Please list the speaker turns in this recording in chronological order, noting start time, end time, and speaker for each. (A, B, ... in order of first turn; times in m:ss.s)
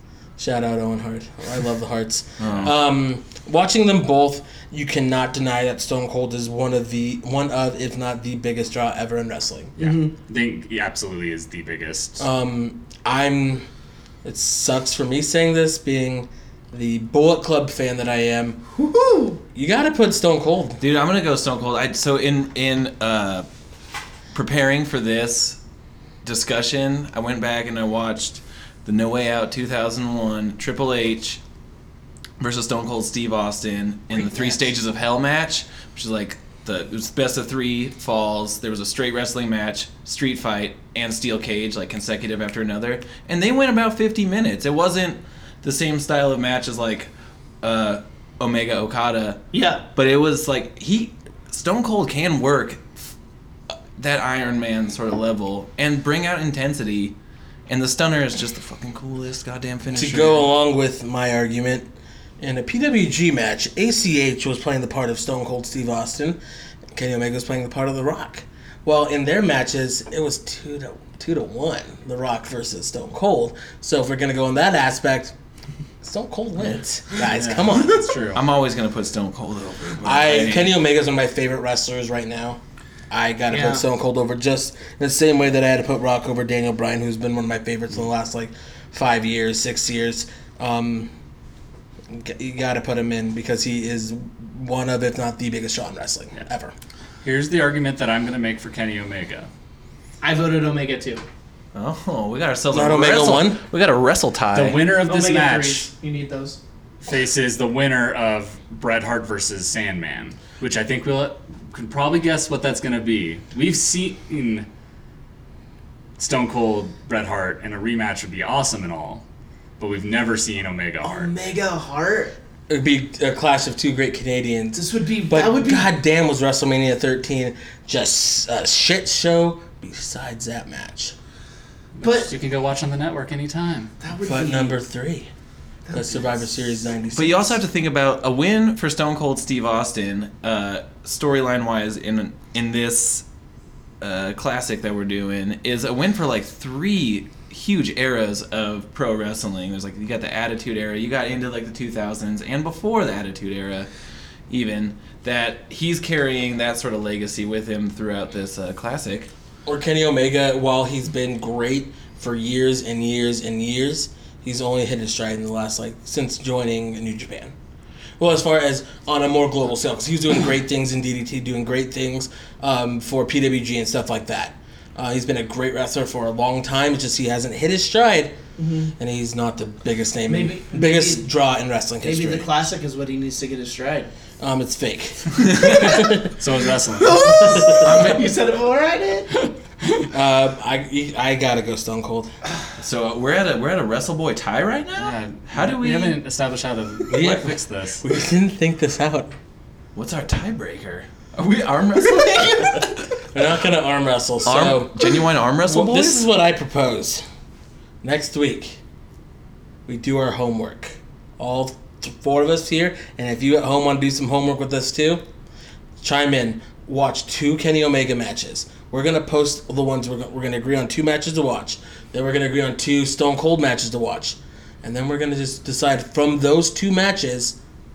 0:00.4-0:09.8 A
0:02.4-0:02.7 B
0:09.8-0:10.1 C
0:09.8-0:12.2 D
0:12.2-0:13.7 A
0:14.2-0:18.6 A
0:18.8-0:19.4 C
0:19.6-0:20.8 A
0:20.8-0:23.5 B
0:24.3-0:25.6 B
0:26.2-0:31.4 B
0:32.4-0:47.1 B
0:47.6-0:53.1 B
0:49.5-0:49.8 C
0:54.0-0:57.2 B
0:57.7-1:00.5 B
0:59.9-1:01.9 A
1:02.4-1:06.4 A
1:07.0-1:15.3 A
1:16.0-1:18.1 A
1:17.2-1:18.4 D
1:18.3-1:20.8 B
1:20.0-1:22.6 A
1:23.1-1:31.1 A
1:23.5-1:23.8 C
1:32.1-1:36.7 A
1:37.2-1:39.5 D
1:40.2-1:41.2 C
1:41.8-1:44.8 B
1:42.7-1:43.6 A
1:44.5-1:45.9 D
1:45.0-1:46.6 C
1:47.0-1:54.7 D
1:56.2-1:59.2 D
1:59.8-2:01.3 D
2:01.0-2:02.4 C
2:02.7-2:11.2 A
2:04.8-2:05.9 C
2:12.0-2:13.9 D
2:12.0-2:12.3 C
2:14.0-2:14.8 C
2:14.2-2:15.3 A
2:15.9-2:16.3 C
2:15.9-2:17.6 A
2:17.1-2:23.2 B
2:24.0-2:33.9 B
2:34.5-2:39.3 B
2:39.7-2:47.5 A
2:48.2-2:58.4 A
2:58.6-2:58.9 C
2:59.0-3:02.5 A
3:00.3-3:01.3 C
3:02.0-3:04.1 C
3:04.4-3:06.3 A
3:05.6-3:06.1 C
3:05.7-3:07.3 D
3:07.0-3:09.3 C
3:07.2-3:08.1 A
3:07.8-3:08.3 B
3:10.1-3:12.3 A
3:12.8-3:16.2 B
3:15.0-3:18.0 D
3:17.1-3:19.3 A
3:20.0-3:23.1 B
3:23.3-3:27.2 A
3:24.5-3:26.3 B
3:28.0-3:28.8 A
3:29.9-3:35.2 A
3:36.0-3:47.6 A